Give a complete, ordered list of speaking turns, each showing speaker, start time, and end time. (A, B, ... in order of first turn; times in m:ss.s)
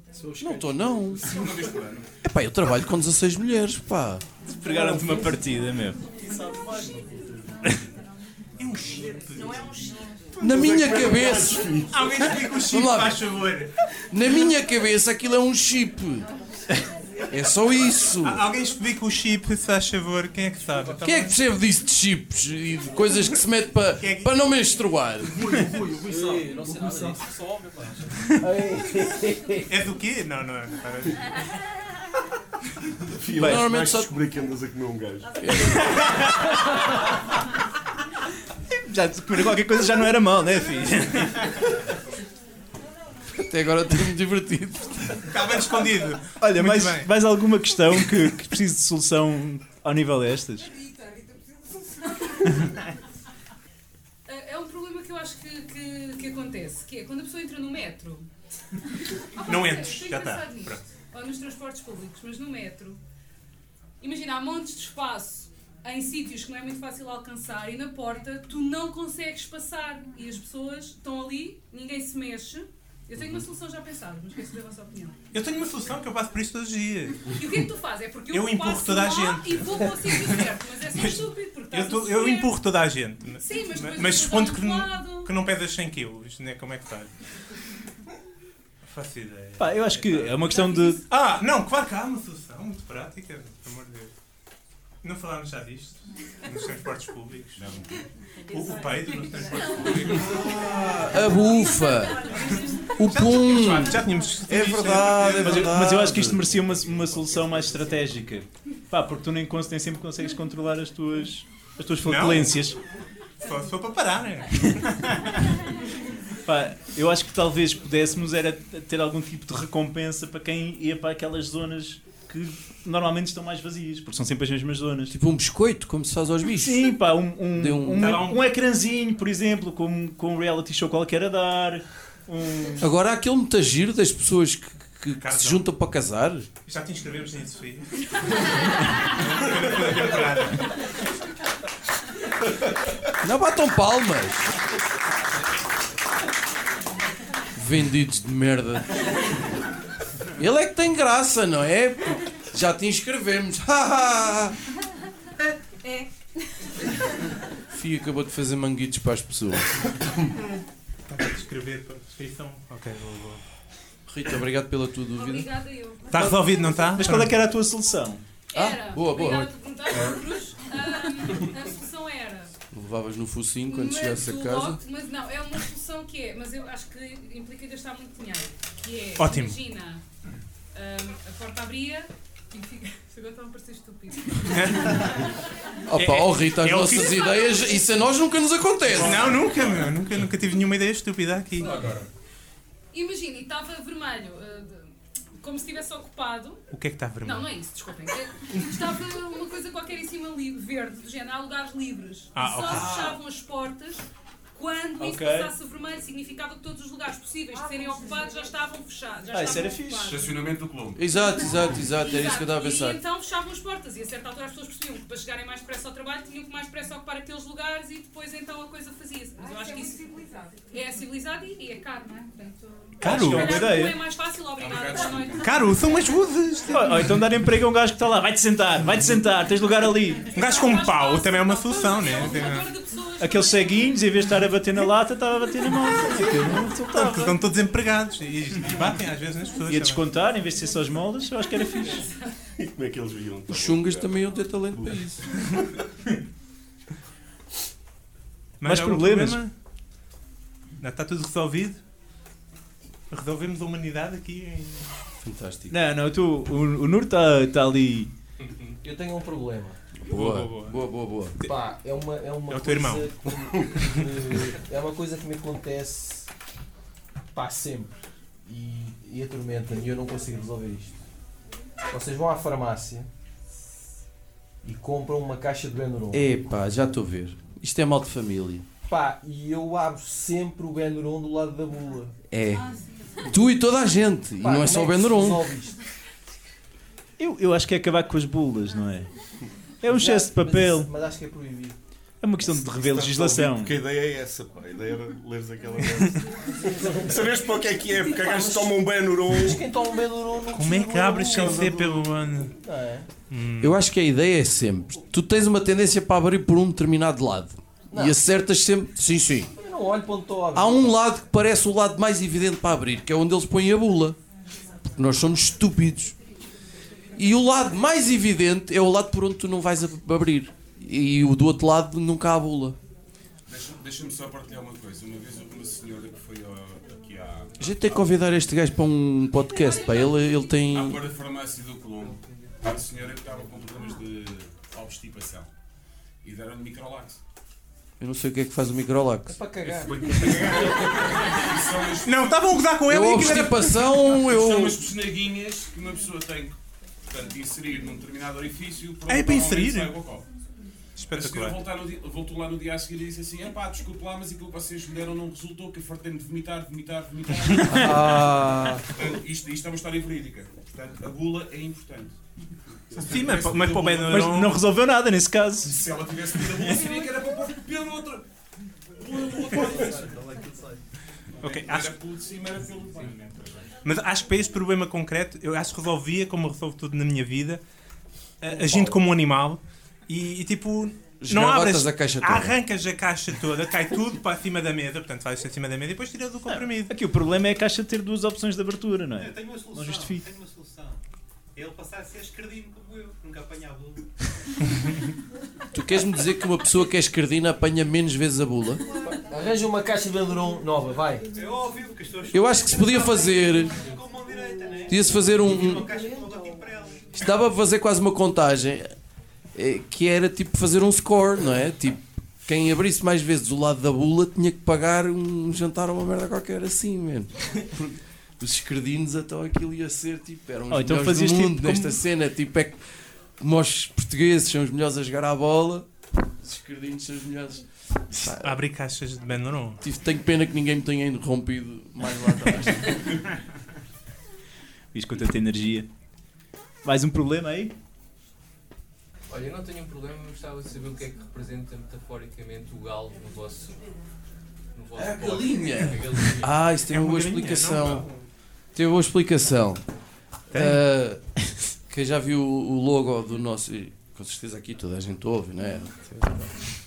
0:00.2-0:02.1 A
0:00.4-0:01.4 B
0:02.2-0:04.2 B
0:04.4-0:06.0 C
0:04.8-0:05.2 D
0:06.4-0:07.0 D
0:08.6-0:09.7 E
0:10.4-0:11.8 B
0:10.4-0:12.4 D
0:11.9-0:13.7 E
0:12.6-0:13.2 B
0:14.1-0:16.3 B
0:17.3-0:18.4 B
0:18.2-0:21.3 E
0:21.0-0:25.4 B
0:24.0-0:24.3 E
0:25.4-0:27.1 D
0:25.5-0:27.3 A
0:26.2-0:27.2 F
0:26.7-0:27.0 G
0:28.3-0:29.7 H
0:29.7-0:31.5 E
0:33.2-0:35.9 D
0:33.4-0:34.2 B
0:35.4-0:36.0 B
0:38.8-0:41.6 C
0:43.3-0:45.2 B
0:45.3-0:47.1 E
0:46.4-0:50.7 C
0:54.2-0:58.3 I
0:59.3-1:03.0 I
0:59.4-1:00.8 E
1:04.0-1:15.2 I
1:15.3-1:17.5 E
1:17.3-1:22.5 I
1:18.3-1:20.4 E
1:20.9-1:27.2 E
1:23.4-1:25.3 I
1:28.8-1:34.1 E
1:29.6-1:31.0 C
1:30.6-1:31.0 I
1:35.0-1:37.6 E
1:37.6-1:38.0 A
1:38.5-1:40.6 E
1:40.2-1:46.4 B
1:42.5-1:45.7 E
1:45.4-1:52.8 C
1:52.0-1:52.6 E
1:53.4-1:55.4 E
1:56.4-2:05.1 C
2:05.1-2:06.9 B
2:06.6-2:12.9 C
2:07.5-2:08.2 B
2:08.0-2:08.4 E
2:12.8-2:16.5 B
2:15.2-2:15.6 E
2:16.6-2:21.0 E
2:23.2-2:24.6 B
2:27.5-2:29.0 B
2:30.3-2:34.6 B
2:37.7-2:39.9 B
2:41.1-2:43.4 E
2:44.1-2:45.5 B
2:45.2-2:47.1 I
2:46.1-2:47.4 E
2:47.0-2:48.2 C
2:48.5-2:52.5 I
2:48.5-2:49.5 B
2:52.7-2:54.8 B
2:53.7-3:00.0 I
2:59.2-2:59.6 E
3:00.7-3:05.3 I
3:04.4-3:05.3 E
3:05.9-3:09.4 B
3:05.9-3:07.2 E
3:07.2-3:07.8 I
3:09.0-3:11.9 E
3:09.5-3:09.9 A
3:11.6-3:12.0 A
3:12.9-3:16.6 I
3:16.7-3:17.5 E
3:17.2-3:30.3 I
3:22.3-3:23.2 E
3:22.7-3:23.1 A
3:25.0-3:25.5 C
3:29.3-3:30.1 C
3:30.0-3:31.7 A
3:31.0-3:33.0 B
3:31.9-3:45.4 I
3:43.0-3:43.7 E
3:43.0-3:44.0 C
3:44.5-3:45.6 A
3:45.4-3:47.2 E
3:46.7-3:50.3 C
3:50.3-3:52.7 E
3:50.3-3:53.9 I
3:53.2-3:57.4 C
3:56.9-4:00.0 E
3:59.7-4:02.1 C
4:02.5-4:05.1 D
4:03.5-4:05.2 B
4:08.6-4:09.5 E
4:08.6-4:09.4 C
4:10.8-4:11.8 E
4:13.1-4:15.0 E
4:15.2-4:15.7 B
4:15.7-4:18.1 C
4:18.8-4:19.8 H
4:20.0-4:21.4 B
4:20.1-4:20.8 E
4:21.4-4:26.3 H
4:22.5-4:24.0 E
4:27.3-4:31.0 H
4:31.9-4:33.1 H
4:34.6-4:36.2 H
4:36.1-4:38.6 B
4:38.9-4:42.1 H
4:42.3-4:45.5 B
4:44.4-4:45.8 H
4:47.2-4:49.1 C
4:49.8-4:50.9 C
4:49.9-4:51.8 H
4:52.2-4:53.7 C
4:52.4-4:59.6 D
4:56.8-4:57.4 H
4:58.1-5:02.0 H
5:00.5-5:02.5 E
5:01.3-5:01.7 D
5:02.6-5:03.1 H
5:03.3-5:03.8 E
5:03.6-5:09.5 B
5:07.9-5:08.2 H
5:09.6-5:11.0 H
5:10.5-5:14.2 B
5:14.9-5:16.2 B
5:17.2-5:22.8 B
5:23.5-5:28.1 A
5:27.6-5:31.0 B
5:30.7-5:35.5 A
5:32.1-5:32.4 F
5:36.2-5:37.2 A
5:38.0-5:39.4 B
5:39.3-5:41.4 H
5:39.6-5:40.9 E
5:40.4-5:42.4 A
5:42.0-5:44.1 E
5:42.9-5:44.8 B
5:44.1-5:50.3 A
5:49.1-5:49.9 E
5:51.0-5:51.6 E
5:51.1-5:58.1 A
5:57.7-5:58.9 B
5:57.7-5:58.6 H
5:58.9-6:02.2 A
6:02.9-6:04.2 A
6:03.0-6:04.6 E
6:04.0-6:05.8 C
6:05.6-6:08.2 A
6:09.0-6:10.1 A
6:09.5-6:10.8 G
6:11.4-6:13.7 A
6:11.4-6:12.0 E
6:13.8-6:17.6 E
6:18.4-6:26.9 E
6:21.2-6:22.5 B
6:26.4-6:30.2 C
6:29.2-6:31.0 G
6:31.5-6:34.3 G
6:35.7-6:38.8 B
6:39.0-6:41.3 H
6:41.3-6:47.1 G
6:42.3-6:43.8 B
6:44.9-6:45.9 B
6:47.1-6:48.9 B
6:49.5-7:02.8 B
7:00.7-7:02.0 C
7:03.4-7:05.9 B
7:06.4-7:08.6 B
7:08.3-7:09.8 E
7:09.8-7:13.2 B
7:14.9-7:15.9 C
7:16.8-7:17.7 C
7:19.3-7:23.8 F
7:24.7-7:26.5 F
7:25.0-7:28.1 B
7:26.9-7:28.2 E
7:28.7-7:29.8 B
7:30.5-7:36.6 B